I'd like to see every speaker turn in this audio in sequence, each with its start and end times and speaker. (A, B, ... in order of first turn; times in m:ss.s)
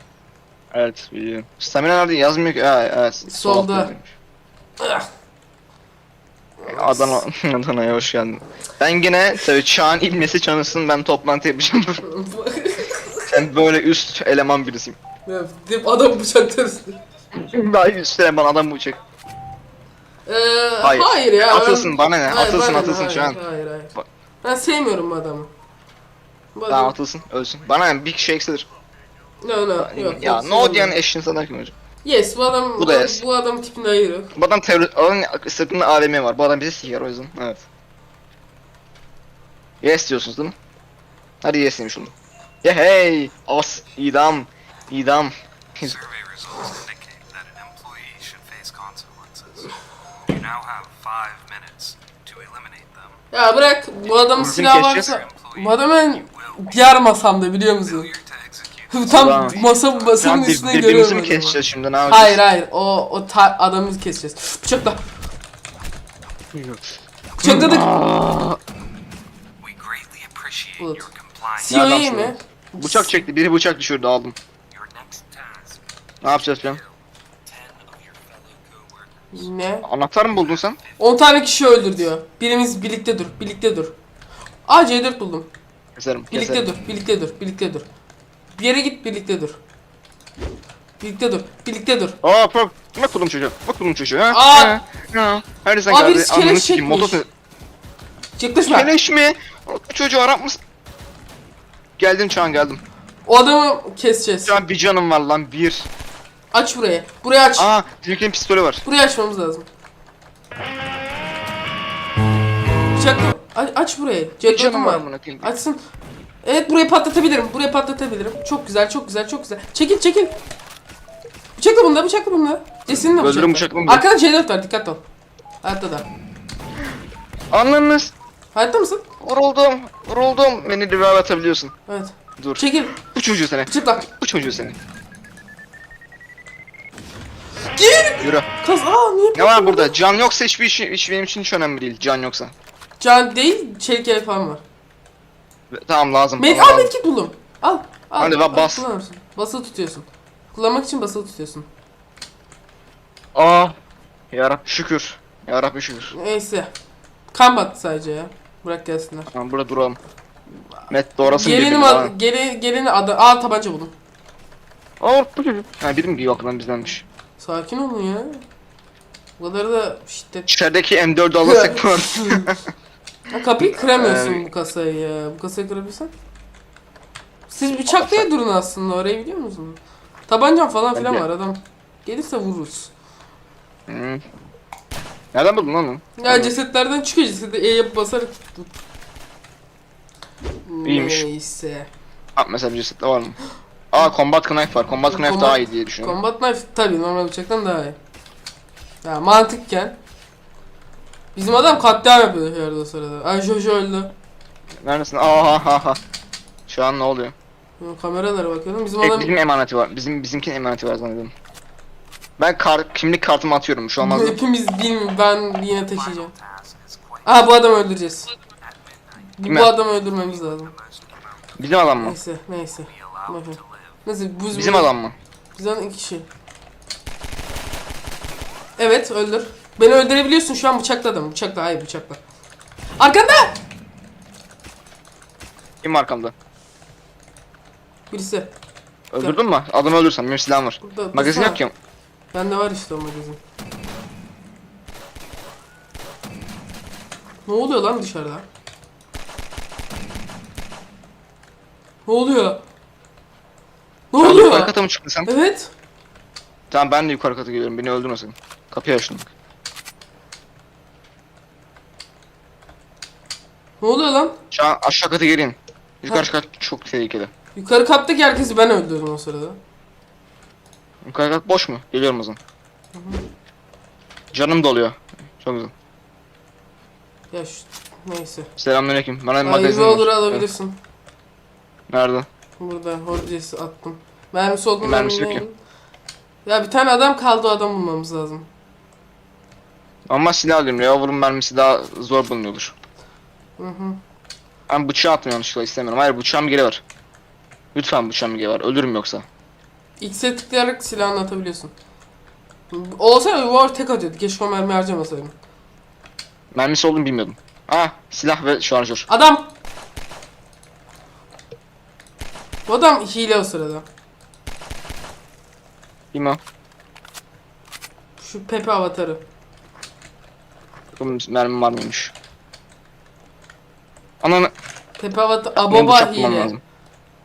0:00.7-0:04.1 A
0:03.2-0:03.9 B
0:04.8-0:05.1 B
0:06.6-0:07.2 B
0:06.7-0:12.0 A
0:12.0-0:13.3 B
0:13.3-0:15.0 A
0:15.2-0:17.0 B
0:17.3-0:19.0 A
0:20.2-0:25.5 B
0:20.8-0:23.4 A
0:26.6-0:26.9 B
0:26.7-0:28.7 A
0:29.4-0:31.0 B
0:29.8-0:31.7 A
0:32.0-0:34.3 B
0:32.8-0:33.2 A
0:34.3-0:37.6 A
0:39.8-0:40.5 A
0:41.4-0:42.1 A
0:42.6-0:46.0 A
0:45.8-0:49.7 C
0:50.3-0:53.1 C
0:53.3-0:58.1 B
0:54.3-0:55.2 A
0:57.9-0:58.9 C
0:58.9-1:05.0 B
0:59.1-0:59.6 A
1:00.2-1:02.4 A
1:06.5-1:06.8 A
1:07.4-1:07.9 B
1:07.4-1:08.6 A
1:09.6-1:11.6 C
1:10.8-1:11.1 B
1:11.6-1:13.2 B
1:11.6-1:14.4 A
1:14.7-1:15.8 C
1:16.2-1:16.8 A
1:17.5-1:19.0 C
1:19.3-1:19.9 B
1:19.8-1:20.8 A
1:21.0-1:23.9 B
1:24.7-1:25.5 B
1:26.0-1:26.6 A
1:26.3-1:27.8 B
1:28.5-1:29.6 B
1:31.0-1:32.2 B
1:32.2-1:37.3 A
1:34.3-1:34.8 B
1:35.9-1:37.2 B
1:38.4-1:38.9 B
1:38.7-1:40.6 A
1:42.0-1:42.8 A
1:43.2-1:44.6 B
1:44.4-1:45.9 A
1:46.5-1:47.7 B
1:47.6-1:48.8 A
1:48.8-1:49.7 B
1:52.9-1:55.8 B
1:54.4-1:55.5 A
1:56.4-2:00.3 B
2:01.6-2:05.0 B
2:03.0-2:04.0 A
2:05.6-2:06.1 B
2:07.5-2:08.1 A
2:08.5-2:09.0 B
2:09.2-2:11.7 A
2:11.9-2:13.0 B
2:12.4-2:14.8 A
2:13.6-2:14.0 B
2:17.8-2:19.9 B
2:18.2-2:18.5 A
2:19.3-2:22.5 A
2:23.0-2:24.6 B
2:25.7-2:26.9 A
2:26.4-2:31.7 B
2:28.2-2:28.8 A
2:33.3-2:33.8 A
2:34.3-2:36.1 A
2:36.1-2:36.7 B
2:37.3-2:39.3 B
2:39.3-2:40.0 A
2:40.9-2:42.1 A
2:41.2-2:43.9 B
2:45.0-2:47.0 A
2:47.4-2:48.4 B
2:49.4-2:50.5 B
2:50.5-2:52.6 A
2:51.4-2:52.5 B
2:53.3-2:56.1 B
2:53.6-2:54.4 A
2:57.5-3:02.9 B
2:57.9-2:58.2 A
3:00.9-3:01.2 A
3:03.9-3:04.2 A
3:05.3-3:06.5 A
3:06.2-3:08.7 B
3:10.6-3:11.9 B
3:10.8-3:11.2 A
3:12.4-3:13.4 A
3:13.9-3:16.2 A
3:15.1-3:18.0 B
3:19.0-3:20.0 B
3:21.3-3:24.1 B
3:24.8-3:26.0 A
3:26.7-3:27.3 A
3:27.8-3:29.3 B
3:29.0-3:31.3 A
3:32.4-3:34.4 A
3:34.0-3:36.3 B
3:36.1-3:37.2 C
3:37.2-3:38.3 B
3:39.4-3:40.7 B
3:39.4-3:39.7 A
3:40.8-3:41.1 C
3:41.6-3:42.2 A
3:42.0-3:44.9 B
3:43.2-3:43.6 C
3:44.5-3:45.1 A
3:45.6-3:46.2 B
3:48.8-3:52.2 B
3:53.0-3:53.6 B
3:55.8-3:56.3 A
3:58.1-3:58.5 B
3:59.1-4:01.7 A
4:00.8-4:01.6 B
4:02.3-4:03.4 B
4:07.4-4:08.4 B
4:12.1-4:12.6 B
4:14.1-4:14.8 B
4:14.2-4:15.3 A
4:15.2-4:15.7 B
4:16.7-4:19.3 A
4:23.8-4:24.4 B
4:24.5-4:27.3 A
4:27.6-4:29.6 B
4:31.0-4:32.4 A
4:32.9-4:33.2 B
4:34.3-4:35.7 A
4:37.3-4:38.5 B
4:38.6-4:40.5 A
4:39.4-4:40.8 B
4:41.9-4:42.3 A
4:42.6-4:45.6 B
4:44.8-4:45.4 A
4:46.4-4:48.5 B
4:50.1-4:52.8 A
4:53.6-4:54.0 B
4:54.7-4:56.8 A
4:57.8-4:59.2 A
5:00.0-5:01.7 B
5:02.7-5:05.3 B
5:06.5-5:09.1 A
5:09.1-5:09.5 B
5:12.7-5:13.8 B
5:16.1-5:16.4 A
5:18.2-5:19.2 B
5:21.0-5:22.1 A
5:24.2-5:24.5 A
5:25.0-5:26.5 B
5:25.6-5:26.6 A